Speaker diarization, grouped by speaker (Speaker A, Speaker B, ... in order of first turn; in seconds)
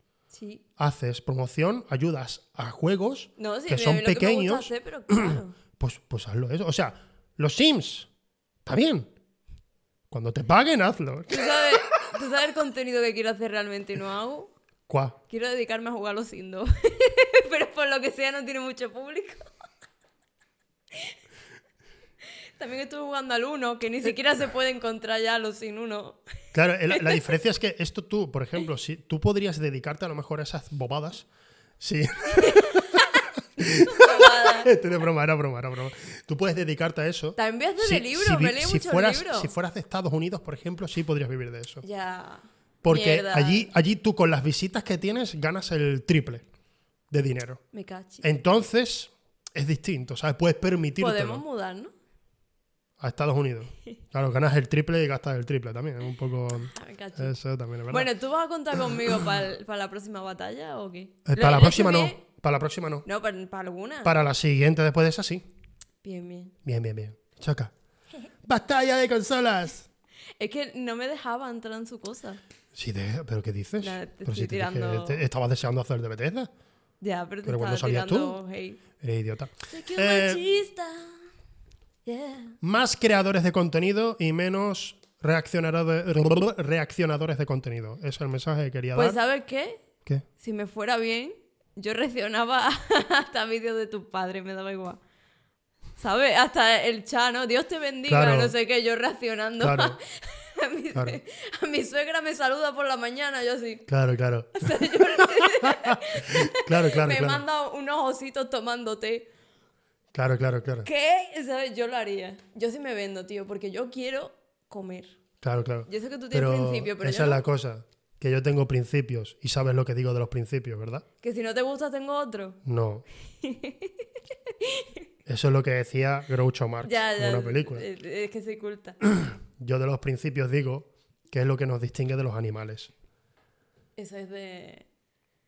Speaker A: 0.3-0.6, 3.4-5.6, 11.3-14.5, 15.3-19.5, 22.6-26.2, 26.9-27.2, 32.3-33.0, 33.6-34.7, 37.4-39.5, 41.8-43.7, 47.7-48.3, 51.0-51.9, 56.7-57.3, 57.9-62.2, 63.0-64.1, 66.0-66.6, 70.4-72.4, 73.8-75.2, 77.0-78.8, 79.7-81.2, 82.0-82.6, 89.0-89.8, 90.4-95.0, 96.0-103.9, 104.6-109.3, 110.8-115.2, 115.9-117.4, 121.2-122.6, 123.4-123.9, 124.6-124.9, 126.8-129.0, 134.0-134.9
Speaker B: 0.8-8.1, 8.7-9.1, 10.1-12.1, 14.9-15.2, 26.5-31.3, 31.8-41.8, 42.8-46.5, 47.1-47.6, 48.2-51.4, 53.0-58.1, 61.3-63.0, 64.0-65.4, 66.7-67.7, 68.4-69.9, 72.7-76.5, 77.5-78.4, 79.0-80.4, 82.6-89.2, 98.1-98.5, 99.6-100.0, 100.9-101.2, 103.9-107.4, 110.1-110.9, 115.4-121.0, 122.7-123.0, 125.3-127.8, 129.0-132.9